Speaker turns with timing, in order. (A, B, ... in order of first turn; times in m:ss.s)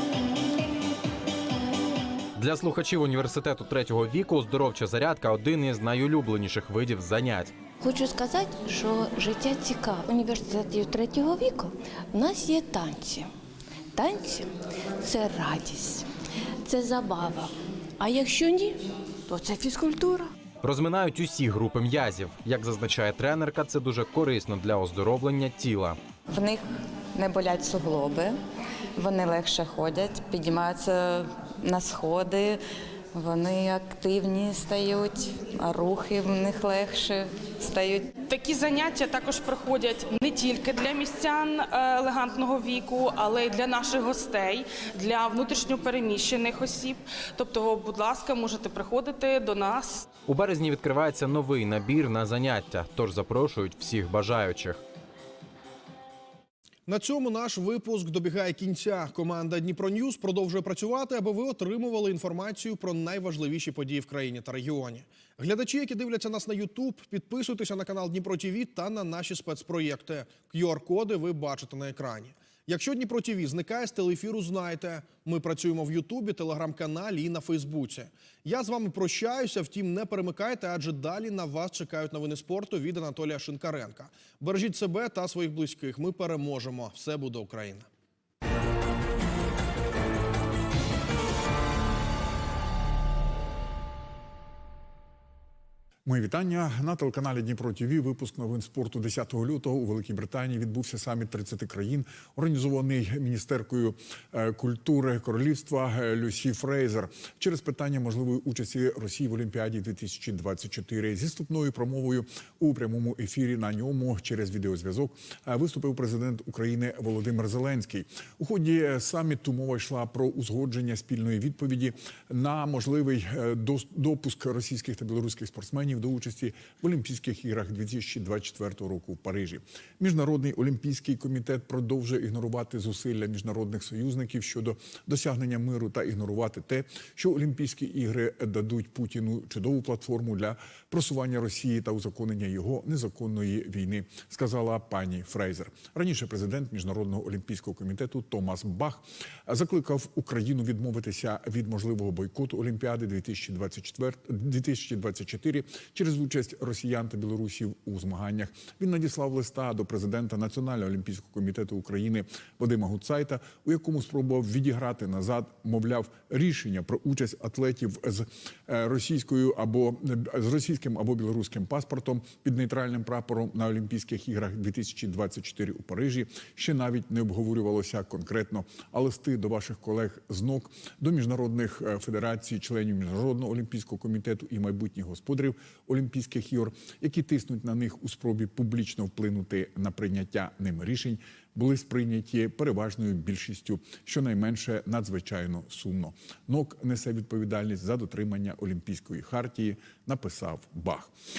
0:02.4-0:07.5 A
0:07.8-0:13.2 B
0:10.0-0:12.2 C
0:14.0-0:14.4 B
0:15.0-0:16.0 B
0:16.7-0:17.5 B
0:18.0-0:18.8 B
0:19.3-0:20.3 B
0:20.6-0:26.0 A
0:26.3-0:28.4 C
0:29.0-0:32.6 C
0:33.1-0:38.1 C
0:38.3-0:50.0 D
0:50.2-0:54.8 A
0:56.9-1:27.9 E
1:36.0-3:21.1 F